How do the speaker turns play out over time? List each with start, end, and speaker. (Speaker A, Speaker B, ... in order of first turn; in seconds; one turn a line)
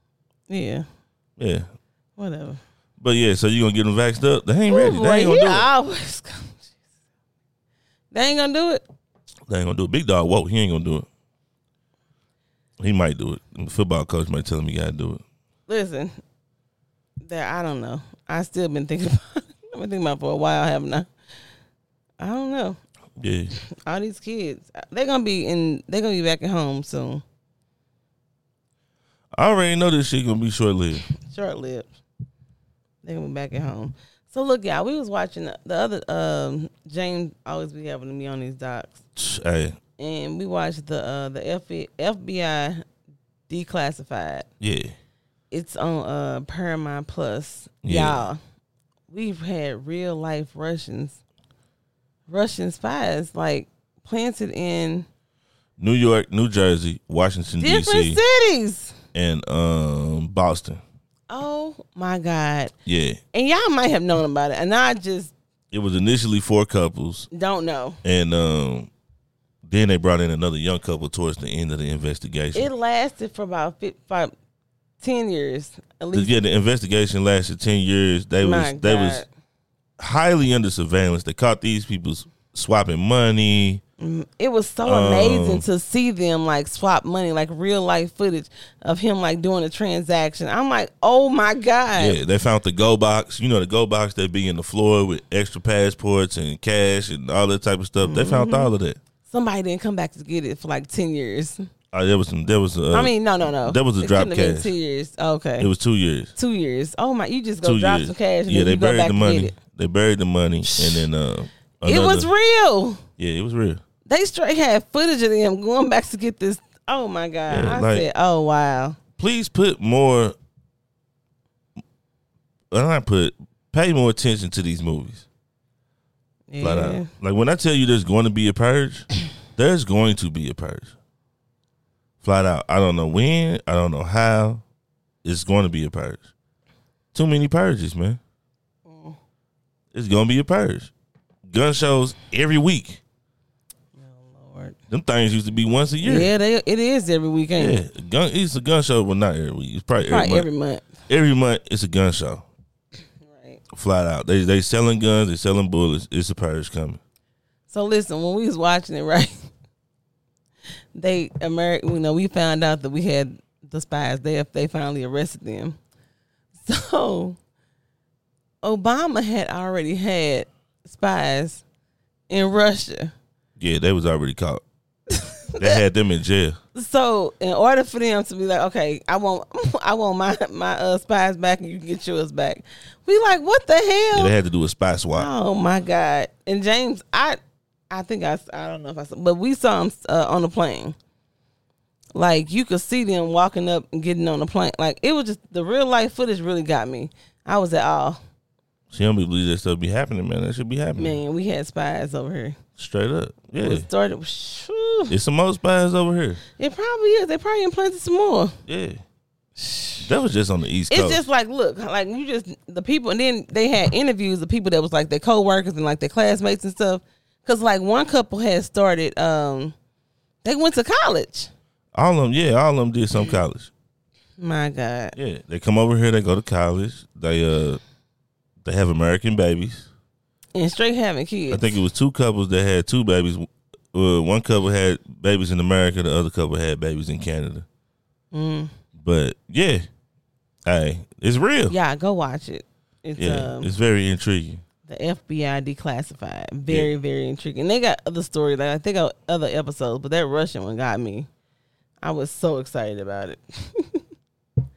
Speaker A: 0.5-0.8
Speaker B: 1.4-1.7
Speaker A: 2.2-2.6
Speaker B: 3.0-5.7
Speaker A: 4.7-6.7
Speaker A: 8.1-8.8
Speaker B: 9.5-11.1
Speaker B: 12.8-15.2
Speaker A: 15.7-16.1
Speaker A: 17.2-21.1
Speaker A: 22.2-22.8
Speaker B: 23.2-23.5
Speaker A: 23.8-27.2
Speaker B: 29.3-31.0
Speaker A: 31.2-31.9
Speaker A: 33.0-39.0
Speaker B: 39.1-39.8
Speaker A: 40.0-42.8
Speaker A: 43.5-44.5
Speaker B: 44.6-44.9
Speaker A: 45.5-48.4
Speaker B: 47.8-48.2
Speaker A: 49.1-51.2
Speaker A: 52.3-55.1
Speaker B: 55.8-58.2
Speaker A: 57.6-58.9
Speaker B: 59.1-60.8
Speaker A: 61.3-62.7
Speaker B: 62.9-63.2
Speaker A: 63.3-65.3
Speaker B: 65.7-67.3
Speaker A: 67.3-68.0
Speaker B: 68.0-68.9
Speaker B: 69.6-72.7
Speaker A: 72.5-74.3
Speaker A: 75.0-76.3
Speaker B: 76.1-79.2
Speaker A: 78.4-79.3
Speaker B: 80.0-83.8
Speaker A: 84.0-92.2
Speaker B: 84.8-85.6
Speaker B: 92.0-99.0
Speaker A: 98.0-98.7
Speaker A: 99.3-101.7
Speaker B: 101.9-104.7
Speaker A: 102.9-105.7
Speaker B: 105.6-106.3
Speaker A: 106.3-109.5
Speaker B: 107.6-112.3
Speaker A: 110.6-111.0
Speaker A: 111.8-113.0
Speaker B: 113.2-113.8
Speaker A: 114.1-119.0
Speaker B: 117.5-118.0
Speaker B: 119.2-120.3
Speaker B: 122.7-125.2
Speaker A: 126.5-127.1
Speaker B: 126.6-130.9
Speaker B: 132.2-134.6
Speaker B: 135.2-136.3
Speaker B: 137.1-138.2
Speaker A: 138.9-139.2
Speaker B: 139.9-140.9
Speaker B: 141.5-143.0
Speaker A: 144.0-144.7
Speaker B: 144.9-146.3
Speaker A: 146.0-147.8
Speaker B: 147.6-150.5
Speaker A: 150.1-150.9
Speaker B: 151.1-152.4
Speaker A: 153.2-153.6
Speaker B: 153.7-157.0
Speaker A: 157.7-159.3
Speaker A: 160.9-165.8
Speaker A: 166.6-167.4
Speaker A: 168.6-171.6
Speaker A: 172.3-173.1
Speaker B: 173.6-174.6
Speaker A: 175.1-175.8
Speaker B: 175.6-176.6
Speaker A: 176.7-184.3
Speaker B: 184.1-185.3
Speaker A: 185.1-187.4
Speaker A: 187.9-190.9
Speaker A: 192.1-198.2
Speaker B: 198.9-201.2
Speaker A: 201.0-202.6
Speaker B: 202.8-203.9
Speaker A: 203.6-205.1
Speaker B: 205.1-206.4
Speaker A: 206.6-208.6
Speaker B: 208.7-209.0
Speaker A: 209.6-210.1
Speaker B: 210.0-211.2
Speaker A: 210.9-219.7
Speaker A: 220.4-221.5
Speaker B: 221.9-223.7
Speaker A: 224.4-225.1
Speaker B: 225.2-227.8
Speaker B: 228.6-229.9
Speaker A: 230.5-231.8
Speaker B: 231.5-237.7
Speaker A: 238.3-238.7
Speaker B: 239.0-239.8
Speaker B: 240.7-241.7
Speaker A: 241.7-243.7
Speaker B: 243.2-244.6
Speaker A: 244.9-251.3
Speaker A: 252.0-254.0